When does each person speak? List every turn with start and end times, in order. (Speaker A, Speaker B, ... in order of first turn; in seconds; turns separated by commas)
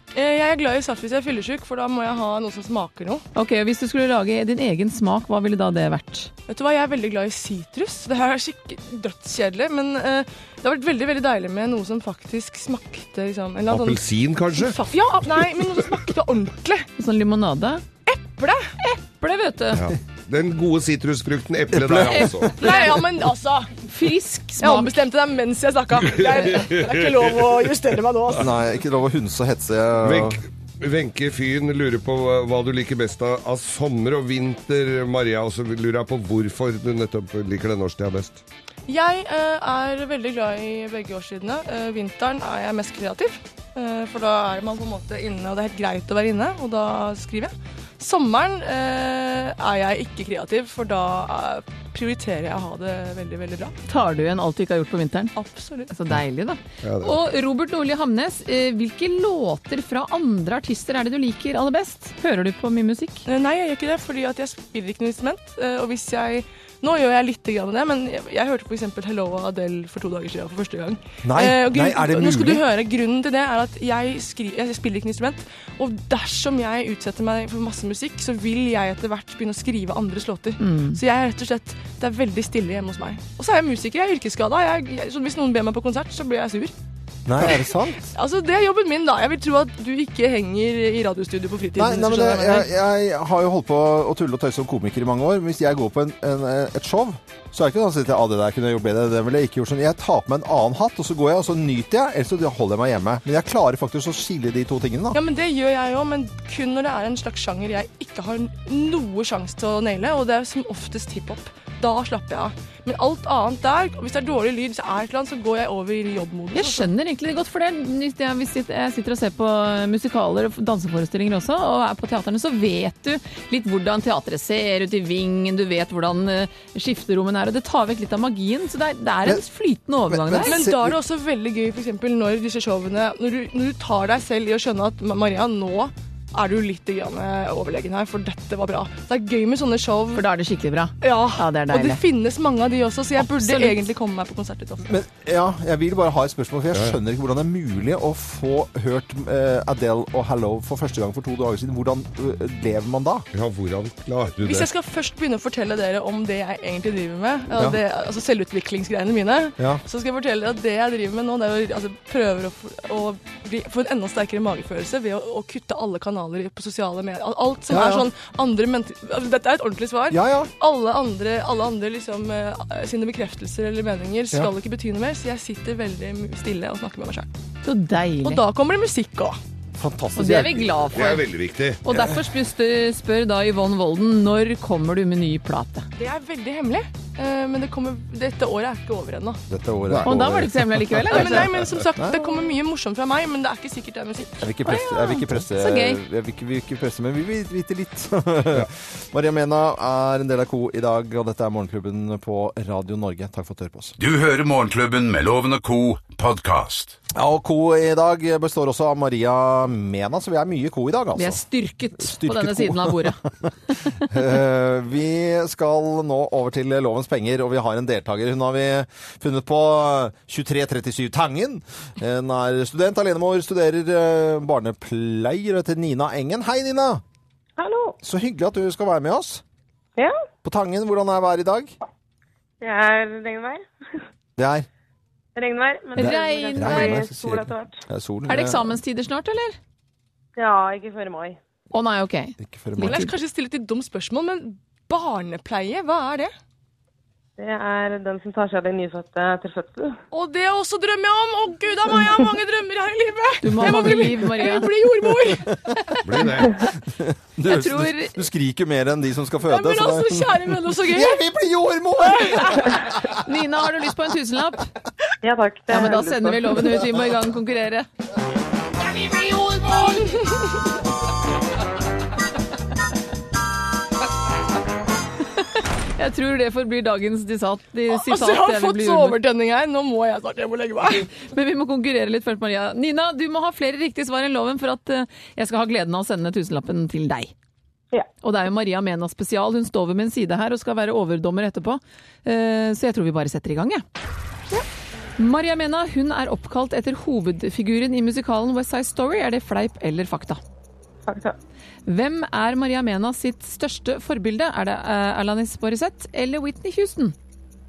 Speaker A: 0.1-3.2, Speaker B: 3.4-6.3, Speaker A: 6.5-16.9, Speaker C: 13.7-14.8, Speaker B: 17.0-17.9, Speaker A: 18.1-18.7, Speaker B: 18.8-19.8, Speaker C: 19.8-22.6, Speaker D: 21.7-22.5, Speaker B: 22.1-23.0, Speaker A: 22.6-23.8, Speaker B: 23.9-25.0, Speaker A: 24.6-28.5, Speaker C: 26.0-27.6, Speaker D: 28.4-30.4, Speaker C: 30.0-38.4, Speaker A: 38.9-53.8, Speaker B: 53.9-55.4, Speaker A: 55.4-55.9, Speaker B: 55.9-63.2, Speaker C: 56.8-57.2, Speaker A: 63.3-86.7, Speaker D: 71.2-72.7, Speaker B: 80.6-81.0, Speaker D: 87.3-88.1, Speaker A: 87.4-92.7, Speaker D: 91.8-105.2, Speaker A: 105.1-116.9, Speaker B: 116.5-130.6, Speaker D: 130.1-131.0, Speaker A: 130.5-140.3, Speaker B: 140.2-142.0, Speaker A: 141.0-145.0, Speaker B: 143.2-143.8, Speaker D: 144.8-153.3, Speaker C: 153.3-154.7, Speaker A: 154.4-177.3, Speaker D: 167.7-168.1, Speaker D: 170.1-170.5, Speaker B: 177.7-178.4, Speaker A: 178.2-179.4, Speaker D: 179.8-181.0, Speaker B: 180.2-181.2, Speaker C: 180.9-181.8, Speaker B: 181.8-185.9, Speaker A: 186.0-189.4, Speaker D: 189.5-191.4, Speaker C: 189.9-190.3, Speaker B: 190.1-191.6, Speaker A: 191.1-195.2, Speaker D: 194.4-203.9, Speaker B: 194.7-196.0, Speaker E: 204.0-207.0, Speaker D: 207.2-211.4, Speaker B: 211.2-214.1, Speaker D: 212.0-213.3, Speaker D: 214.0-227.0, Speaker F: 227.6-228.0, Speaker D: 228.0-229.4, Speaker D: 230.4-231.7, Speaker F: 232.6-233.6, Speaker D: 234.4-234.7, Speaker F: 235.4-237.8, Speaker B: 236.0-237.1, Speaker D: 236.0-238.8, Speaker B: 238.3-239.6, Speaker F: 240.4-241.4, Speaker B: 241.7-243.2, Speaker D: 242.4-243.1, Speaker A: 242.8-246.3, Speaker F: 247.4-250.0, Speaker A: 250.1-255.5, Speaker B: 253.4-254.7, Speaker C: 256.0-256.6, Speaker D: 256.9-263.0, Speaker B: 257.4-258.2, Speaker A: 259.5-261.2, Speaker A: 262.1-262.5, Speaker B: 263.1-264.7, Speaker F: 265.2-266.8, Speaker B: 265.7-267.9, Speaker A: 268.8-270.7, Speaker B: 276.0-279.2, Speaker A: 277.9-281.1, Speaker B: 281.1-287.3, Speaker B: 288.2-293.8, Speaker B: 295.2-300.4, Speaker F: 301.1-301.4, Speaker B: 301.9-307.1